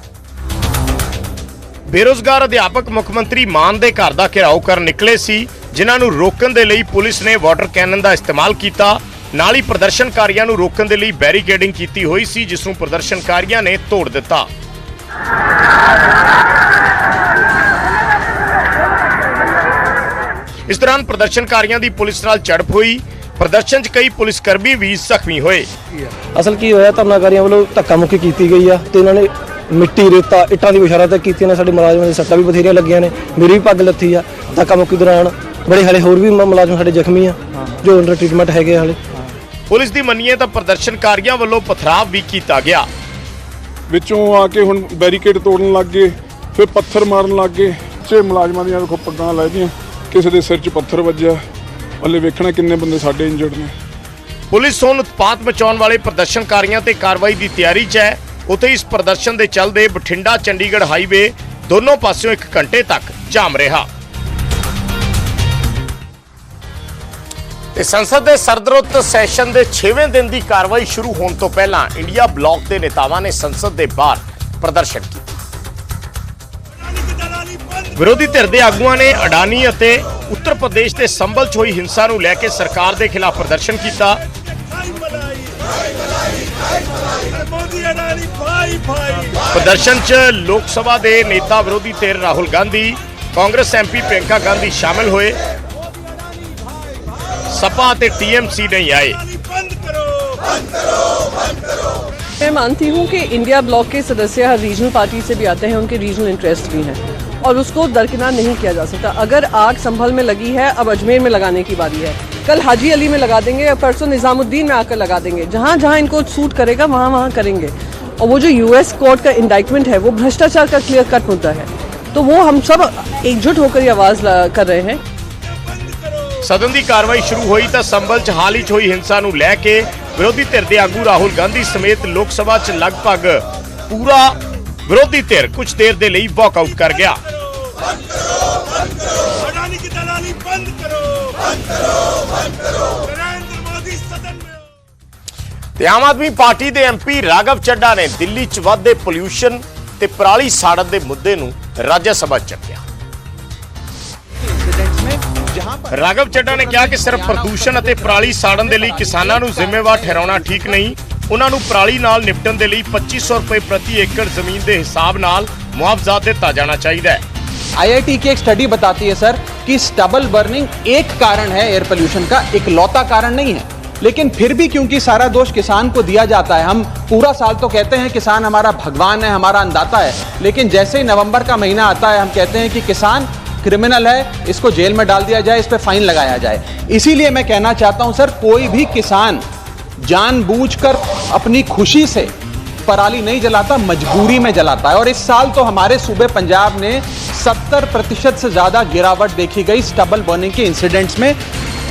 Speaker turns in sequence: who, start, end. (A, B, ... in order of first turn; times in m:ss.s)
0:01.9-0:14.5 A
0:20.7-0:25.7 A
0:26.3-0:39.0 B
0:39.7-0:42.9 A
0:43.9-0:51.4 C
0:52.0-0:53.7 C
0:54.5-1:03.9 A
1:07.8-1:15.4 A
1:18.0-1:24.2 A
1:29.5-1:35.4 A
1:37.5-1:39.2 A
1:42.4-2:05.0 D
2:06.4-2:17.2 A
2:25.8-2:32.8 A
2:35.9-2:47.2 A
2:39.3-2:39.8 E
2:47.8-3:09.4 E
3:10.0-3:12.3 E
3:12.9-3:21.4 E